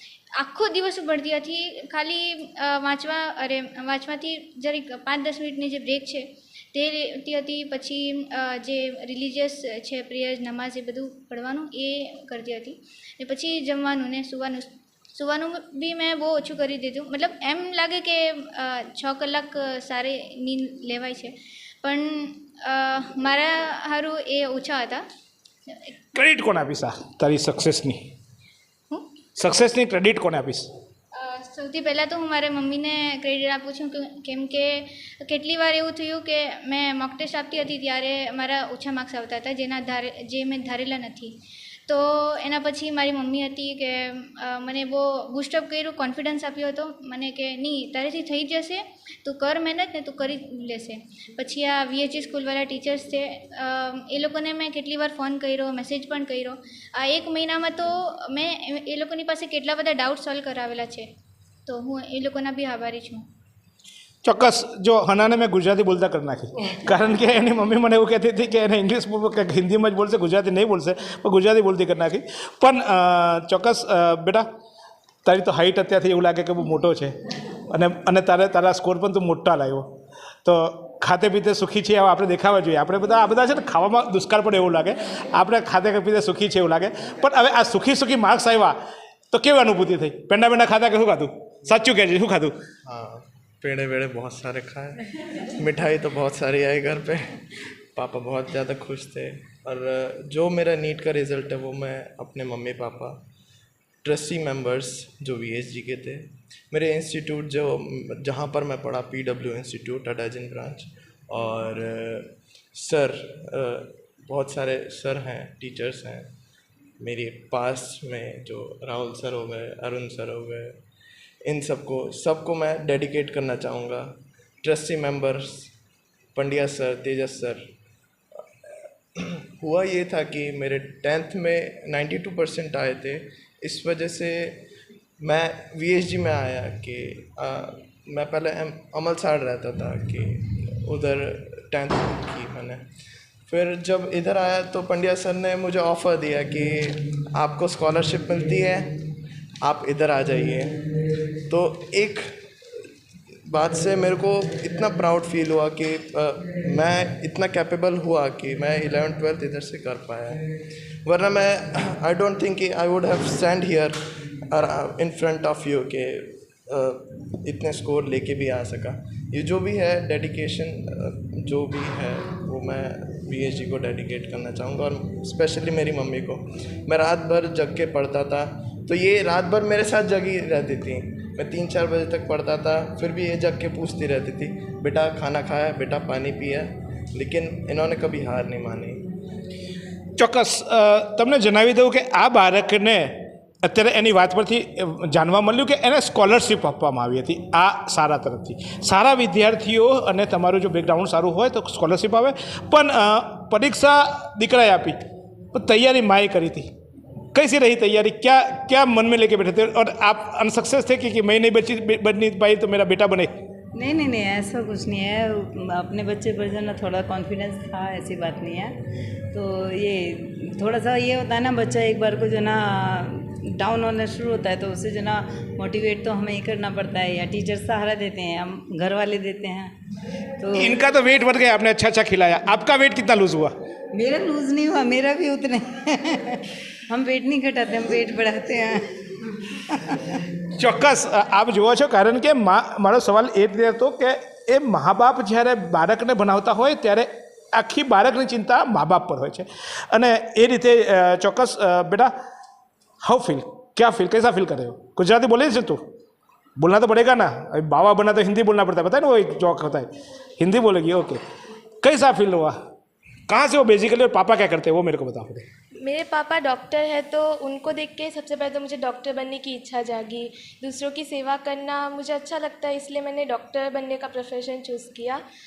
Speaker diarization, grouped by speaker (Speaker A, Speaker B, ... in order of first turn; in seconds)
Speaker A: 0.4-25.0, 31.2-41.3, 41.9-61.1, 61.6-63.2
Speaker B: 26.1-28.0, 29.4-30.7, 64.2-74.5, 75.2-77.1, 77.7-79.9, 80.4-88.8, 89.3-92.5, 190.2-205.0, 205.5-206.7, 207.3-213.3, 230.5-233.5, 240.6-252.1, 253.0-255.8, 256.6-261.2, 261.8-262.6, 263.3-265.4
Speaker C: 92.8-95.0, 95.6-97.2, 97.9-103.2, 104.0-116.3, 117.0-120.8, 121.5-125.7, 126.3-127.6, 129.6-134.6, 135.2-142.8, 143.5-148.9, 149.6-150.8, 151.5-152.2, 153.5-160.4, 161.0-163.9, 164.5-189.0
Speaker D: 213.8-215.2, 215.8-218.7, 219.3-222.6, 223.6-229.7, 234.0-235.6, 236.9-238.8
Speaker E: 265.8-275.2